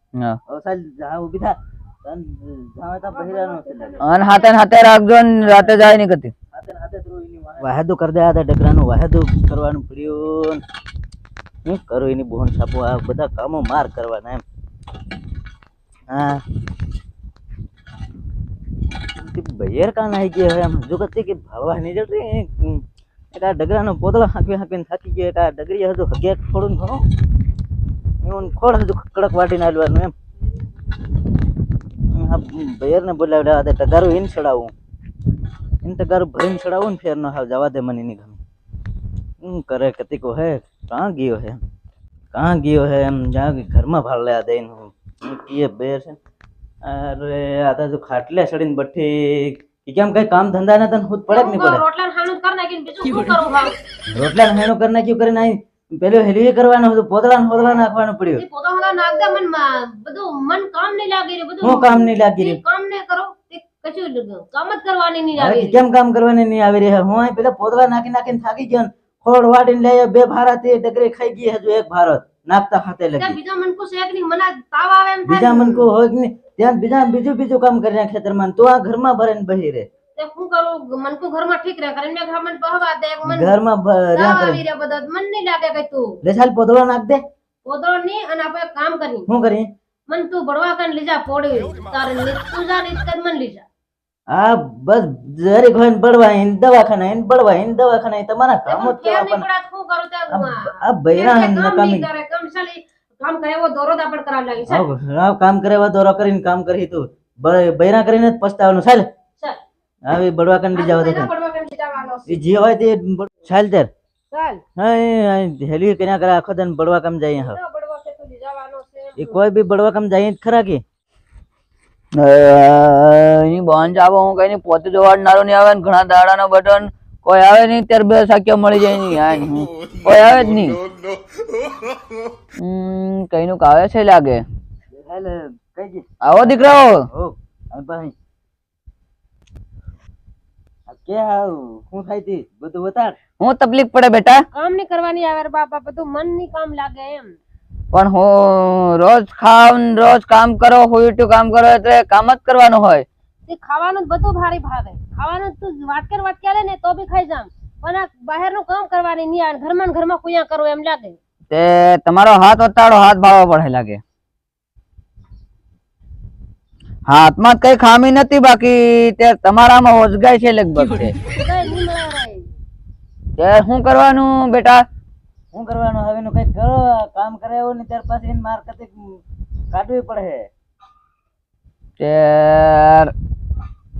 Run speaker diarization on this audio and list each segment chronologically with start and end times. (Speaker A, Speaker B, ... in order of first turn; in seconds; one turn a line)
Speaker A: 0.5-4.0
Speaker B: 3.1-4.8
Speaker C: 4.0-6.3
Speaker A: 6.5-10.6
Speaker A: 11.6-14.4
Speaker A: 16.1-16.4
Speaker A: 19.2-27.0
Speaker A: 28.2-30.1
Speaker A: 32.1-34.7
Speaker A: 35.8-38.4
Speaker A: 39.4-41.6
Speaker A: 42.3-46.2
Speaker A: 46.8-51.8
Speaker B: 51.3-53.8
Speaker A: 54.1-58.4
Speaker B: 58.4-65.8
Speaker A: 61.6-62.6
Speaker A: 65.4-73.4
Speaker B: 73.2-75.8
Speaker A: 75.2-79.9
Speaker B: 80.2-83.6
Speaker A: 83.2-84.6
Speaker B: 84.1-86.2
Speaker A: 86.2-87.2
Speaker B: 87.7-89.3
Speaker A: 89.3-89.7
Speaker B: 90.1-93.6
Speaker A: 94.3-99.4
Speaker B: 98.7-104.8
Speaker A: 100.3-102.1
Speaker A: 104.7-109.0
Speaker A: 110.1-111.3
Speaker B: 110.7-112.4
Speaker A: 112.3-113.9
Speaker B: 114.3-114.6
Speaker A: 114.8-117.6
Speaker B: 117.4-119.4
Speaker A: 119.2-120.8
Speaker C: 122.2-130.8
Speaker C: 132.6-134.4
Speaker A: 134.9-138.1
Speaker C: 136.2-137.0
Speaker A: 140.9-143.2
Speaker C: 143.4-144.4
Speaker B: 144.5-147.3
Speaker C: 147.9-153.1
Speaker B: 153.5-161.2
Speaker C: 161.5-164.0
Speaker C: 167.1-171.1
Speaker B: 171.2-172.6
Speaker C: 173.4-174.8
Speaker A: 175.5-179.2
Speaker A: 179.7-180.5
Speaker C: 182.0-183.1